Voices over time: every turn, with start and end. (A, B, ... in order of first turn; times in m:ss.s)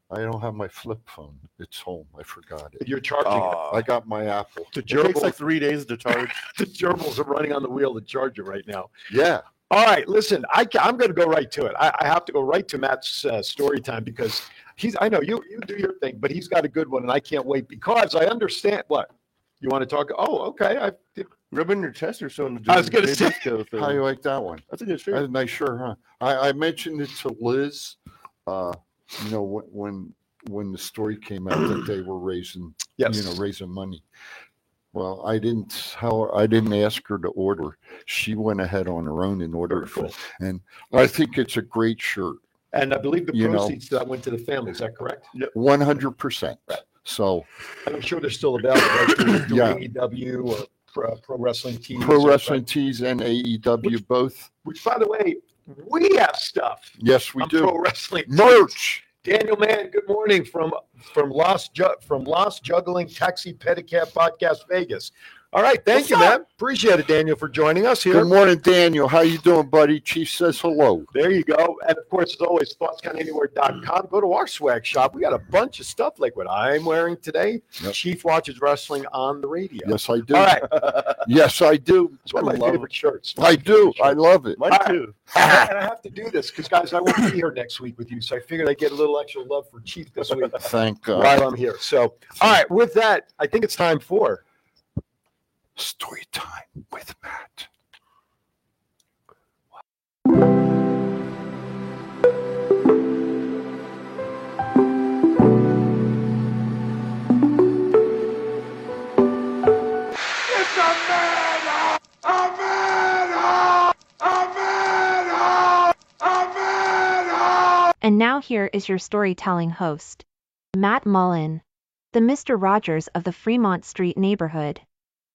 0:00.1-0:02.9 A
0:02.8-0:03.8 B
0:03.2-0:03.6 C
0:03.6-0:04.7 A
0:04.7-0:05.3 B
0:04.9-0:06.4 C
0:06.5-0:08.9 B
0:09.1-0:09.4 A
0:09.7-0:19.1 B
0:19.6-0:21.3 B
0:21.5-0:24.0 C
0:22.7-0:23.4 B
0:23.8-0:34.0 A
0:24.7-0:25.2 C
0:33.0-0:33.3 B
0:34.9-0:42.4 A
0:39.7-0:40.1 B
0:42.7-0:45.3 B
0:43.3-0:43.8 A
0:45.5-0:47.5 A
0:47.8-0:52.6 B
0:49.4-0:49.8 A
0:52.0-0:54.5 A
0:54.6-1:08.3 B
0:57.0-0:59.0 A
1:08.1-1:11.1 A
1:11.1-1:21.0 B
1:19.8-1:24.7 A
1:22.3-1:34.4 B
1:24.6-1:25.2 C
1:25.3-1:25.7 A
1:30.5-1:31.4 A
1:35.8-1:37.7 A
1:58.0-2:01.6 D
2:02.1-2:04.8 D